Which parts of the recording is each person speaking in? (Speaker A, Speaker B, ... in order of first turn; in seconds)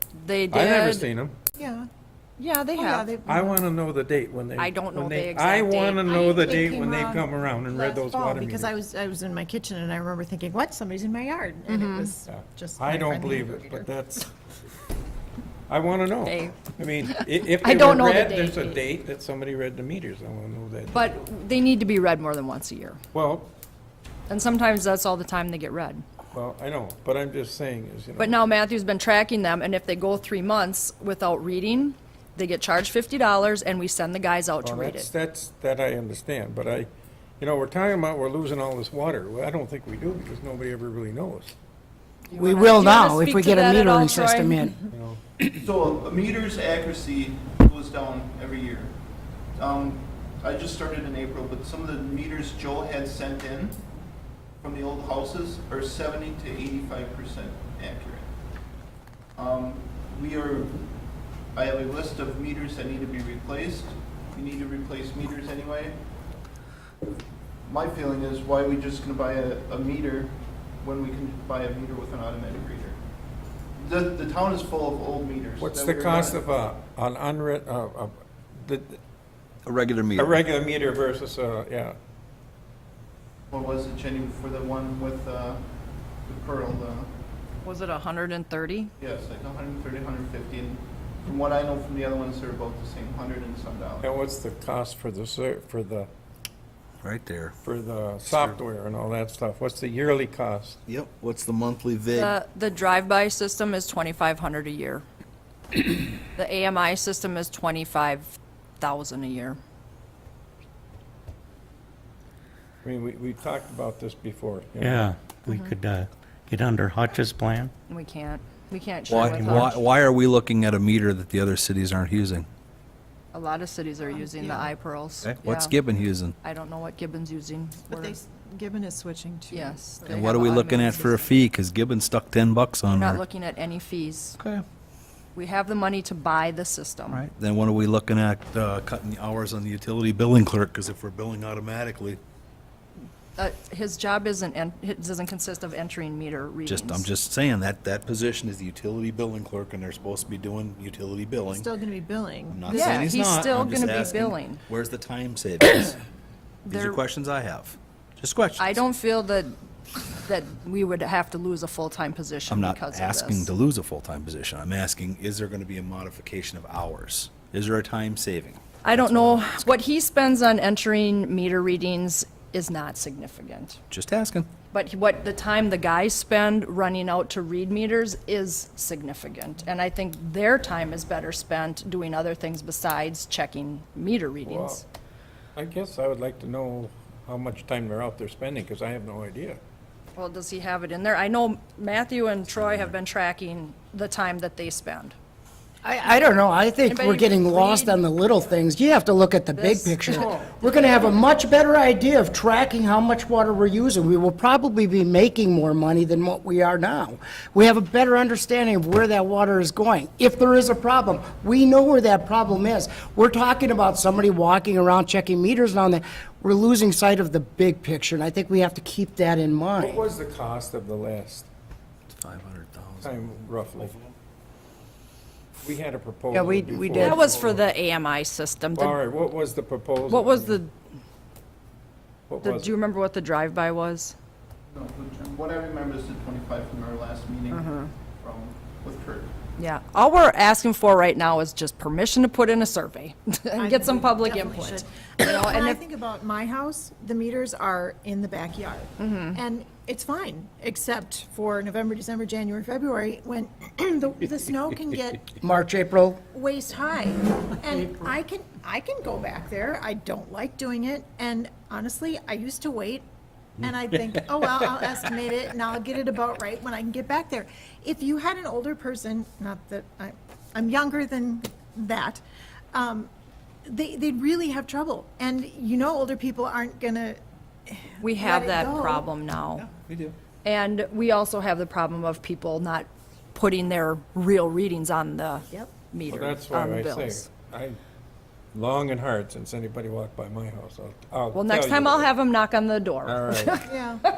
Speaker A: 0.1-1.1, 2.4-3.1, 4.6-6.5, 11.7-12.1, 16.2-18.8, 20.9-23.0, 24.3-26.0, 28.2-35.1, 42.3-44.9, 87.6-88.9, 102.1-105.0, 106.3-109.6, 115.5-115.8, 117.9-119.8, 123.3-125.8, 126.4-128.2, 129.5-131.5, 132.9-134.4, 135.3-137.2, 143.4-147.1, 152.7-154.6, 156.7-157.0, 158.6-159.6, 160.1-163.5, 168.8-173.8, 174.7-184.8, 190.2-195.2, 196.9-198.1, 199.5-201.2, 227.0-229.0, 230.1-230.7, 232.4-234.2, 237.5-237.9, 239.6-245.8, 249.0-249.4, 278.0-279.7, 280.4-287.3, 291.3-293.7
Speaker B: 0.5-1.4, 3.3-8.7, 12.3-14.3, 15.7-21.1, 23.1-23.5, 26.3-28.4, 34.6-41.5, 44.9-45.2, 75.6-79.0, 80.2-82.0, 94.0-96.1, 97.6-100.8, 112.8-115.1, 184.4-184.8, 185.6-189.6, 219.8-221.5, 223.0-223.9, 225.6-227.6, 228.8-230.6, 232.3-232.7, 286.1-287.8, 288.5-292.1, 293.0-293.6
Speaker C: 1.5-1.9, 2.7-3.6, 6.0-13.9, 124.1-124.7, 127.9-130.3, 151.5-153.1, 243.6-255.4, 256.3-263.1, 263.6-272.2, 272.7-273.1, 273.6-279.1, 293.6-294.0
Speaker D: 42.3-44.7, 195.8-220.1, 226.3-227.3, 255.4-256.2
Speaker E: 45.6-48.9, 49.5-53.8, 54.6-58.3, 59.4-60.7, 61.5-66.0, 67.7-73.0, 73.8-76.4, 83.5-85.6, 86.3-87.1, 89.0-94.1, 234.7-239.3
Speaker F: 79.6-80.4, 97.0-97.5, 98.2-98.6, 100.9-102.4, 119.1-122.5, 125.2-126.3, 130.1-133.2, 134.4-134.6, 137.1-142.2, 146.7-151.7, 152.5-156.0, 156.7-158.8, 162.5-169.7, 173.9-174.5, 192.5-192.9, 222.1-224.2, 263.6-264.2, 279.6-280.1
Speaker G: 114.8-117.7, 119.1-119.7